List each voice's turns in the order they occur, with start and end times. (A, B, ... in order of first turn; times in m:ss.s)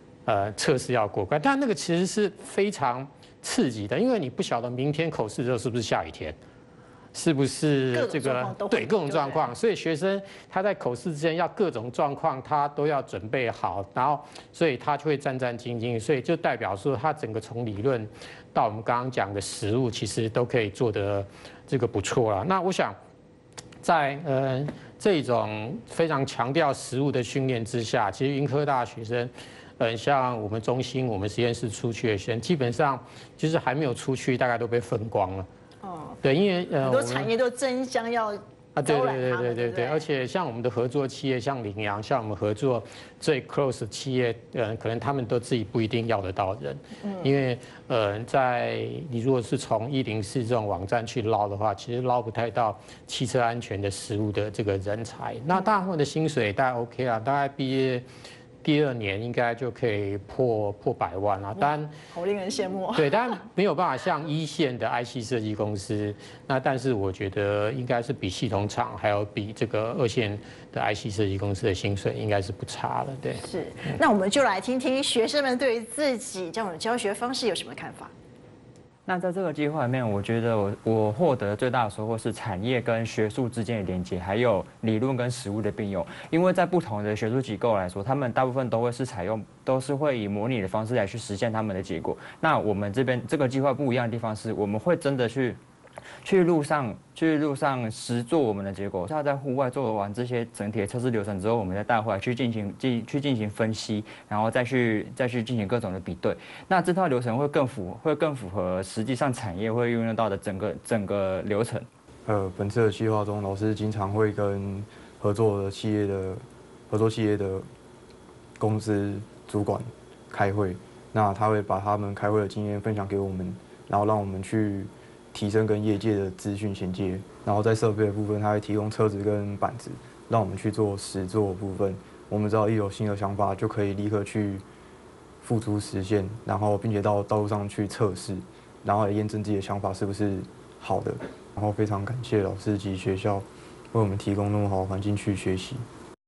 0:00.3-0:06.4 A
0:07.1-0:23.0 A
0:07.9-0:09.5 B
0:23.8-0:35.5 A
0:35.8-0:36.2 B
0:36.2-0:37.3 A
0:36.8-0:40.0 B
0:38.8-0:58.0 A
0:47.0-0:47.3 B
0:58.6-1:01.9 A
1:01.6-1:03.2 B
1:03.0-1:13.4 A
1:13.4-1:18.1 B
1:19.1-1:35.6 C
1:36.2-1:51.9 C
1:52.3-1:57.7 D
1:58.6-2:14.6 D
2:15.4-2:25.9 D